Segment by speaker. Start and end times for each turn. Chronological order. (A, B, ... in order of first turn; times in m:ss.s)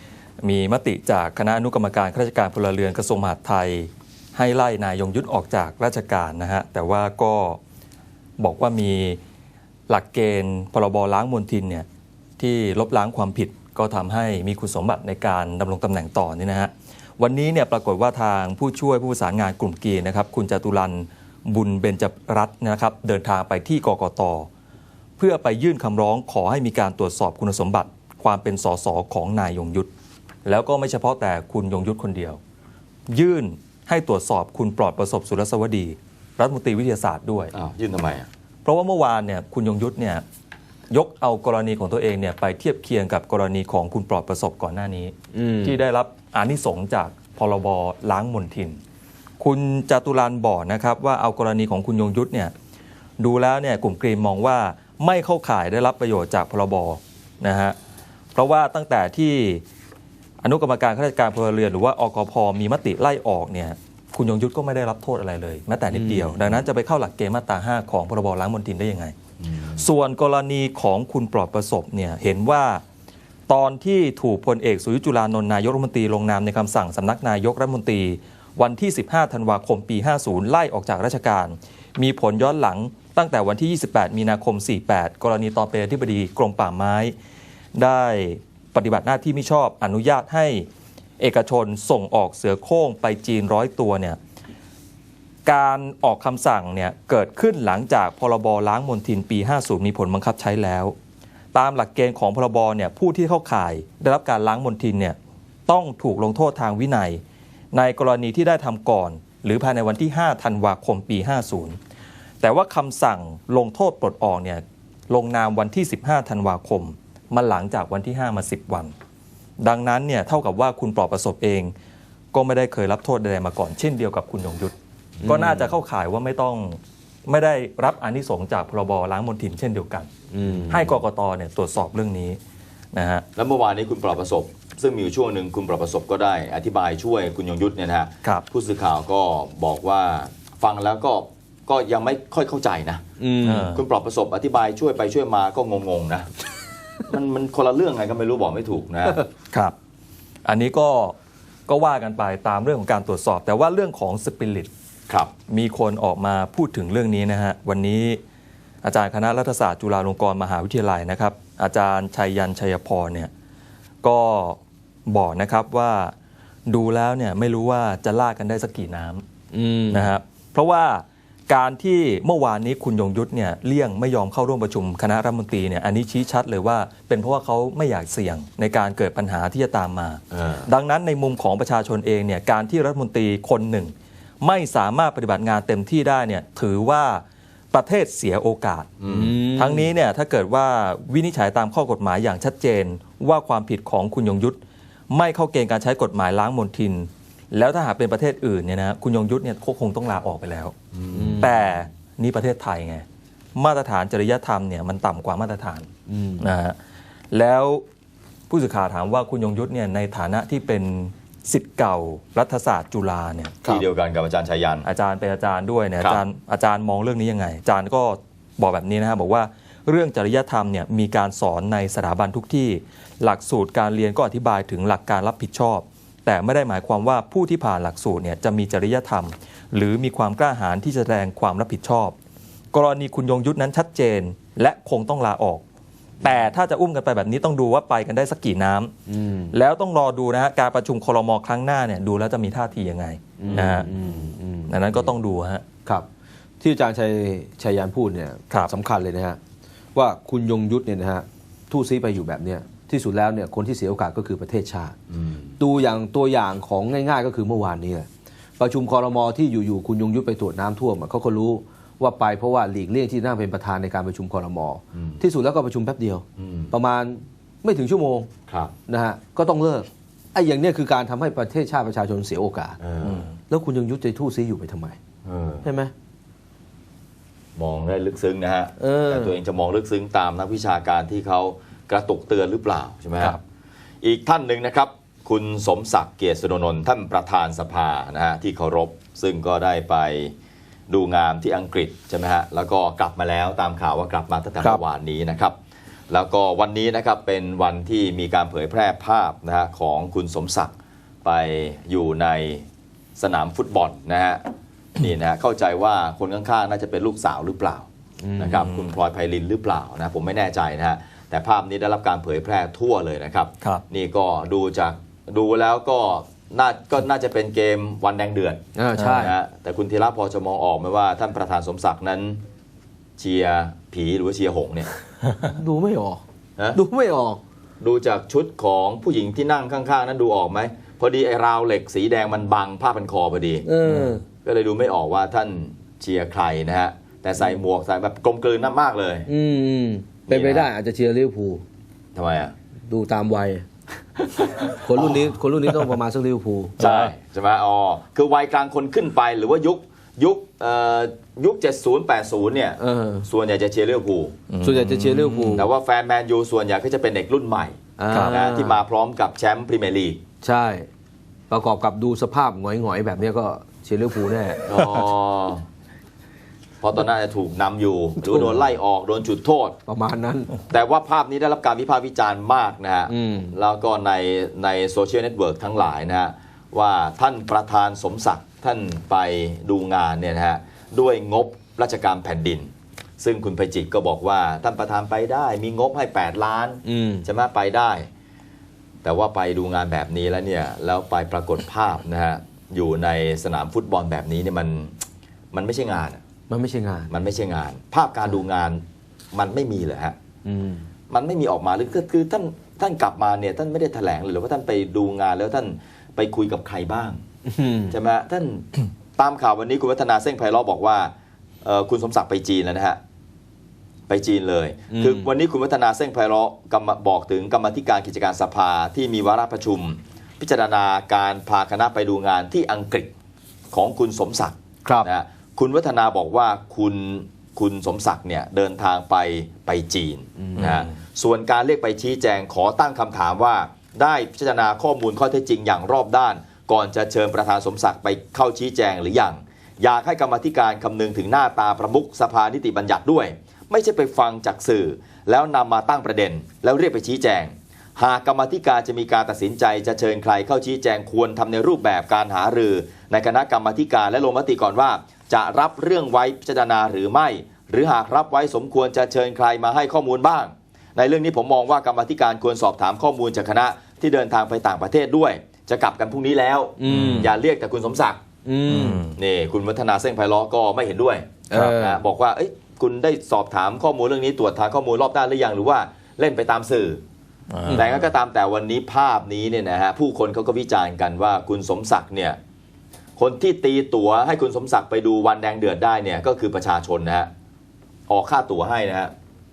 0:00.4-0:07.6 A
0:08.4-0:09.2 A
0:09.9-0:11.8 A
0:12.4-0:24.5 A
0:25.2-0:29.9 A
0:30.4-0:32.4 A
0:33.1-0:37.5 A
0:37.5-0:38.3 B
0:38.6-0:40.2 A
0:40.9-0:48.8 A
0:45.3-0:45.8 C
0:49.4-0:52.5 A
0:53.2-0:57.8 A
0:58.3-0:59.6 A
1:00.4-1:09.1 A
1:05.9-1:06.6 B
1:09.4-1:09.8 B
1:09.8-1:12.8 A
1:13.5-1:27.1 A
1:27.8-1:30.7 A
1:31.2-1:34.2 A
1:35.4-1:40.9 A
1:41.5-1:47.2 A
1:47.7-1:51.8 A
1:52.4-1:58.9 A
1:59.6-2:01.7 A
2:02.3-2:10.1 A
2:05.2-2:05.5 B
2:10.3-2:10.9 C
2:10.7-2:12.4 A
2:12.9-2:13.2 A
2:13.4-2:23.0 B
2:23.2-2:23.7 C
2:23.4-2:23.8 A
2:23.7-2:26.3 B
2:27.1-2:29.2 B
2:30.4-2:31.2 A
2:31.7-2:34.7 A
2:35.5-2:38.2 A
2:38.8-2:43.3 A
2:44.0-2:46.1 A
2:46.7-2:49.2 A
2:49.5-2:50.1 C
2:49.9-3:09.0 A
3:00.3-3:00.7 B
3:09.0-3:09.4 B
3:09.1-3:09.9 C
3:09.5-3:14.6 A
3:15.1-3:20.7 A
3:20.9-3:21.5 B
3:21.1-3:21.7 C
3:21.4-3:25.9 A
3:26.1-3:26.5 C
3:26.4-3:26.8 A
3:27.3-3:27.8 A
3:28.5-3:33.8 A
3:33.6-3:34.9 B
3:34.8-3:52.1 A
3:52.7-3:55.6 A
3:56.2-3:58.9 A
3:59.1-3:59.5 C
3:59.5-4:04.0 A
4:03.4-4:05.1 C
4:04.7-4:05.6 A
4:06.6-4:09.4 C
4:09.9-4:15.0 C
4:15.1-4:15.5 B
4:15.6-4:18.1 C
4:18.6-4:28.3 C
4:24.9-4:25.2 B
4:26.4-4:26.7 B
4:28.5-4:28.7 B
4:28.9-4:32.8 C
4:32.8-4:33.3 B
4:33.0-4:33.3 A
4:33.5-4:35.0 C
4:35.2-4:35.7 B
4:35.6-4:35.9 C
4:37.6-4:43.4 B
4:38.8-4:39.4 C
4:44.0-4:50.3 B
4:50.9-4:55.6 B
4:56.1-5:02.6 B
5:03.2-5:04.4 B
5:05.0-5:07.8 B
5:08.2-5:08.7 C
5:08.4-5:22.4 B
5:08.6-5:09.0 A
5:18.8-5:19.3 C
5:23.2-5:24.9 B
5:25.4-5:27.4 C
5:27.8-5:33.7 B
5:33.6-5:34.2 C
5:34.3-5:39.3 B
5:39.2-5:41.6 C
5:40.3-5:40.7 B
5:42.1-5:42.5 B
5:42.9-5:43.6 C
5:44.3-5:45.2 B
5:44.6-5:46.8 C
5:46.8-5:54.4 B
5:46.8-5:47.1 A
5:52.8-5:53.3 C
5:54.5-5:55.7 A
5:54.6-5:55.7 C
5:55.5-6:00.2 B
5:58.0-5:58.8 C
5:58.1-5:58.4 A
6:00.4-6:00.9 C
6:01.5-6:04.8 C
6:04.6-6:05.6 B
6:06.8-6:09.8 B
6:08.2-6:08.6 C
6:09.8-6:10.5 C
6:10.7-6:28.1 B
6:13.1-6:13.6 C
6:26.8-6:27.3 C
6:29.0-6:35.0 B
6:35.5-6:36.2 B
6:36.5-6:37.1 C
6:37.1-6:40.2 B
6:40.4-6:40.8 C
6:41.1-6:47.2 B
6:47.4-6:48.0 C
6:47.9-6:53.0 B
6:54.1-7:03.1 B
6:54.9-6:55.3 C
7:03.7-7:48.2 B
7:04.8-7:05.1 C
7:10.4-7:10.7 C
7:10.6-7:10.9 A
7:46.8-7:47.3 C
7:46.9-7:47.2 A
7:48.4-7:49.0 C
7:48.7-7:49.2 A
7:49.1-7:57.0 B
7:51.5-7:52.0 C
7:57.5-7:58.0 A
7:57.7-8:02.4 B
8:03.2-8:07.3 B
8:08.1-8:09.1 B